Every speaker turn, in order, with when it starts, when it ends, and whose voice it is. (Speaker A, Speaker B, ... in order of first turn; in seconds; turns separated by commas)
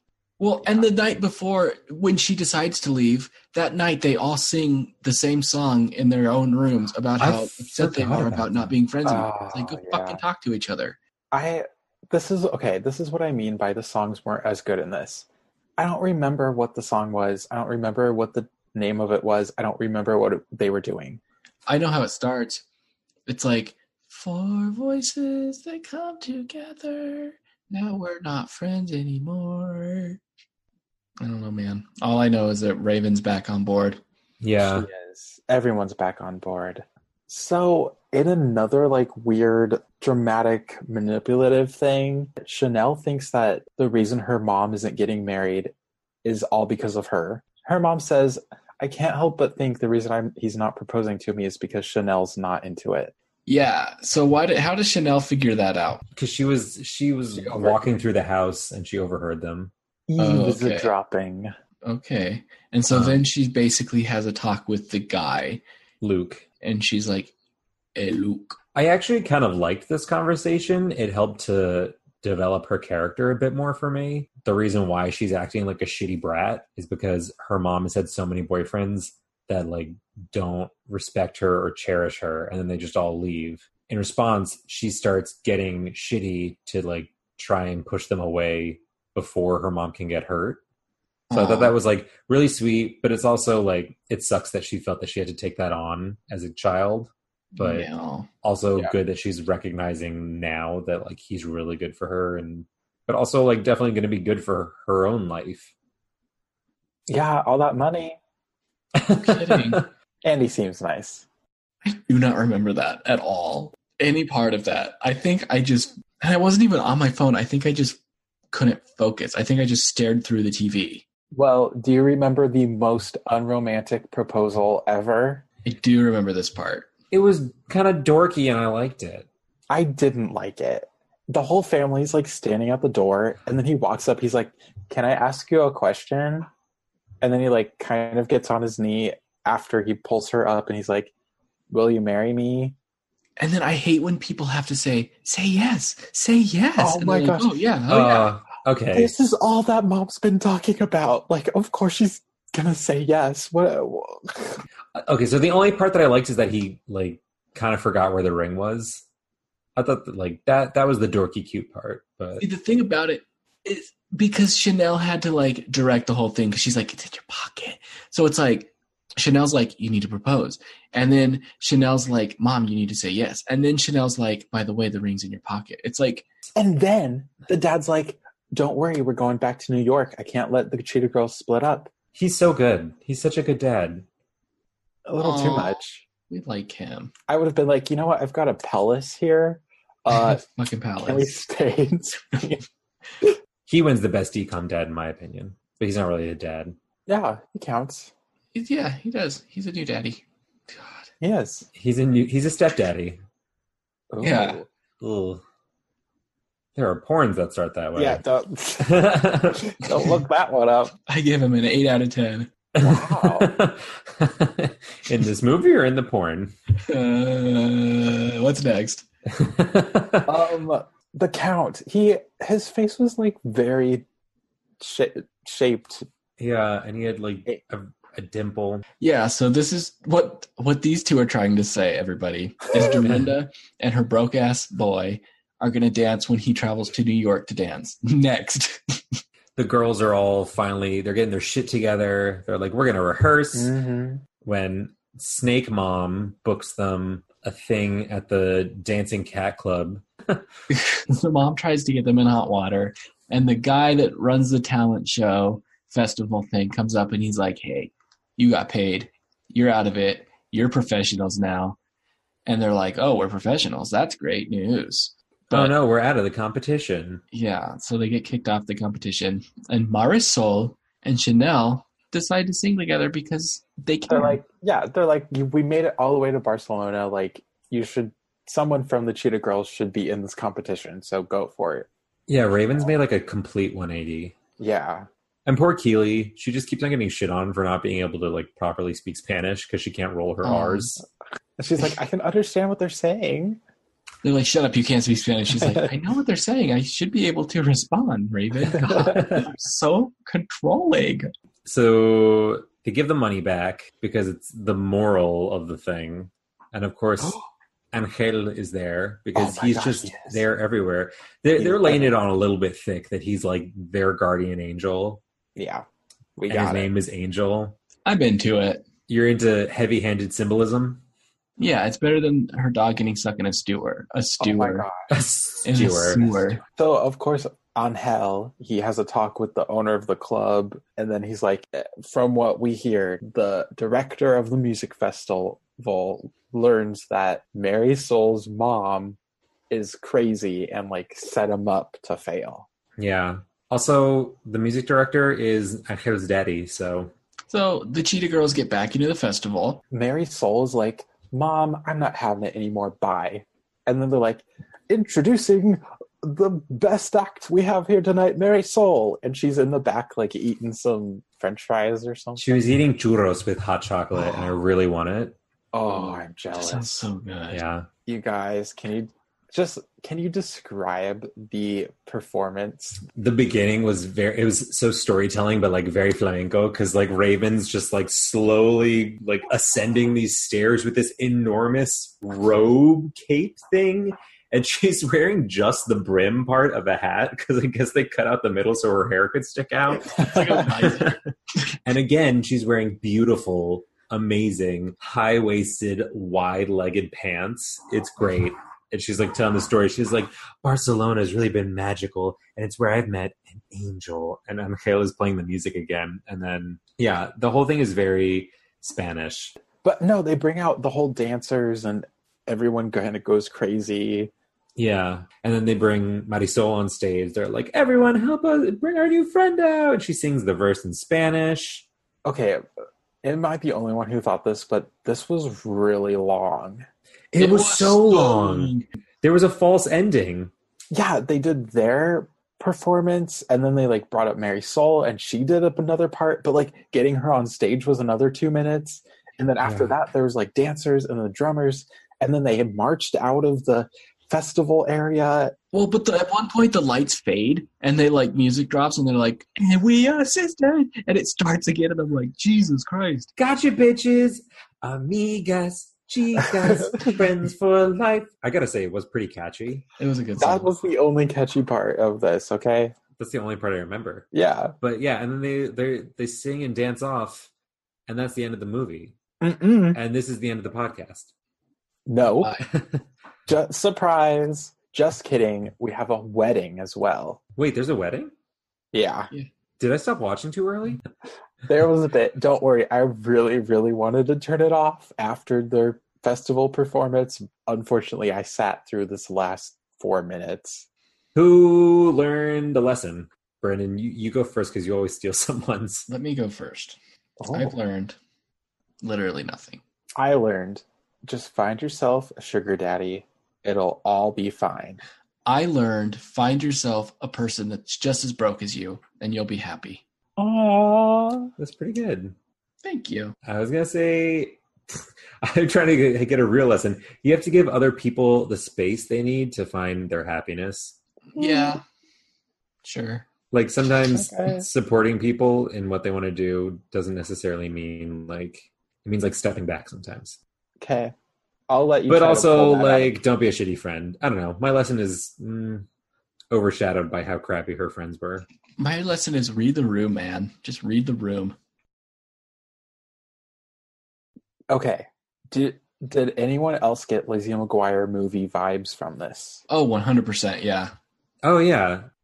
Speaker A: 0.4-11.0, Speaker B: 7.2-8.7, Speaker C: 9.0-10.2, Speaker C: 11.3-21.2, Speaker A: 21.7-22.6, Speaker A: 23.3-30.2, Speaker A: 31.2-34.0, Speaker B: 34.4-34.9, Speaker C: 34.6-53.1, Speaker A: 53.5-56.0, Speaker B: 56.1-59.7, Speaker C: 57.3-57.8, Speaker C: 60.1-61.5, Speaker A: 60.2-60.9, Speaker A: 61.8-65.6, Speaker B: 62.9-63.2, Speaker B: 66.0-66.4, Speaker A: 66.6-67.3, Speaker A: 68.0-68.6, Speaker B: 68.7-90.6, Speaker A: 91.3-91.7, Speaker B: 91.3-97.9, Speaker A: 97.5-98.3, Speaker B: 98.4-105.7, Speaker C: 107.1-108.2, Speaker B: 109.0-109.9, Speaker A: 109.1-109.8, Speaker C: 110.2-111.2, Speaker A: 111.8-118.0, Speaker A: 118.5-121.0, Speaker C: 121.3-125.4, Speaker A: 125.6-126.9, Speaker B: 127.1-129.3, Speaker C: 129.7-136.5, Speaker C: 137.2-141.1, Speaker C: 141.7-142.8, Speaker A: 143.4-148.3, Speaker C: 146.8-147.6, Speaker B: 147.9-149.1, Speaker C: 148.9-154.6, Speaker B: 154.9-159.0, Speaker B: 159.8-162.4, Speaker A: 162.4-176.2, Speaker C: 176.6-181.9, Speaker B: 182.1-184.1, Speaker C: 185.1-186.0, Speaker A: 185.2-187.1, Speaker C: 187.3-190.4, Speaker A: 190.1-191.3, Speaker C: 191.0-192.6, Speaker B: 193.7-196.7, Speaker C: 197.1-198.1, Speaker A: 198.5-201.0, Speaker C: 201.2-201.7, Speaker B: 201.7-203.2, Speaker C: 204.1-204.6, Speaker A: 204.2-204.6, Speaker B: 205.0-205.4, Speaker B: 206.8-208.2, Speaker C: 207.9-209.1, Speaker B: 208.8-209.8, Speaker C: 209.7-210.9, Speaker A: 211.1-212.5, Speaker B: 212.8-216.5, Speaker C: 212.8-213.6, Speaker A: 216.8-219.1, Speaker B: 219.2-220.4, Speaker C: 220.2-224.0, Speaker C: 224.8-226.1, Speaker B: 226.4-228.8, Speaker A: 229.0-239.2, Speaker B: 232.8-233.3, Speaker B: 239.6-243.7, Speaker C: 243.5-244.2, Speaker B: 244.4-250.4, Speaker A: 250.7-261.8, Speaker A: 262.4-265.7, Speaker B: 265.5-267.2, Speaker A: 267.3-274.4, Speaker C: 274.1-281.9, Speaker B: 282.3-284.4, Speaker C: 284.6-285.1, Speaker B: 285.4-291.0, Speaker A: 290.4-290.9, Speaker C: 291.6-293.6, Speaker A: 294.2-301.3, Speaker C: 295.6-295.9, Speaker C: 298.7-299.2, Speaker B: 298.9-299.5, Speaker B: 301.6-307.4, Speaker C: 307.2-307.4, Speaker B: 307.9-315.2, Speaker C: 309.3-310.4, Speaker C: 311.6-312.2, Speaker C: 315.6-316.9, Speaker B: 316.5-317.8, Speaker A: 318.0-318.8, Speaker B: 319.1-321.0, Speaker A: 321.6-324.9, Speaker C: 324.4-325.0, Speaker B: 325.1-326.2, Speaker A: 325.6-326.6, Speaker C: 326.6-339.2, Speaker C: 339.7-342.6, Speaker B: 343.0-347.1, Speaker A: 347.5-349.8, Speaker C: 349.9-362.7, Speaker B: 362.4-365.4, Speaker C: 365.7-367.1, Speaker A: 366.5-367.6, Speaker B: 367.5-367.9, Speaker C: 368.1-373.0, Speaker B: 373.1-391.1, Speaker A: 390.1-391.2, Speaker C: 390.2-390.4, Speaker B: 391.8-409.6, Speaker C: 409.8-414.3, Speaker B: 414.8-421.9, Speaker C: 422.2-422.6, Speaker C: 423.2-426.8, Speaker B: 427.3-430.5, Speaker A: 427.3-428.9, Speaker C: 430.9-445.5, Speaker B: 439.6-439.9, Speaker A: 445.7-453.3, Speaker B: 453.4-459.9, Speaker C: 456.4-457.1, Speaker A: 460.0-460.7, Speaker C: 460.4-462.9, Speaker B: 463.2-464.3, Speaker C: 464.3-464.7, Speaker B: 464.8-467.5, Speaker B: 468.1-469.1, Speaker C: 469.4-470.0, Speaker B: 469.9-471.3, Speaker C: 472.1-472.6, Speaker A: 472.4-472.6, Speaker B: 472.6-473.0, Speaker C: 473.5-477.4, Speaker B: 477.6-478.3, Speaker C: 478.9-479.3, Speaker B: 479.8-481.0, Speaker C: 481.7-490.9, Speaker B: 491.3-496.1, Speaker A: 496.1-498.2, Speaker C: 497.4-497.7, Speaker A: 499.0-499.8, Speaker C: 500.2-505.0, Speaker A: 505.4-510.0, Speaker C: 510.4-511.5, Speaker B: 511.6-512.3, Speaker A: 512.8-513.3, Speaker B: 513.4-521.0, Speaker A: 521.3-521.8, Speaker C: 521.4-521.8, Speaker A: 522.8-523.2, Speaker B: 523.5-530.4, Speaker C: 524.1-524.6, Speaker C: 530.8-531.1, Speaker C: 531.7-533.2, Speaker B: 532.1-535.9, Speaker B: 536.5-538.5, Speaker A: 538.8-541.6, Speaker C: 544.7-549.6, Speaker A: 549.7-550.9, Speaker B: 551.4-552.1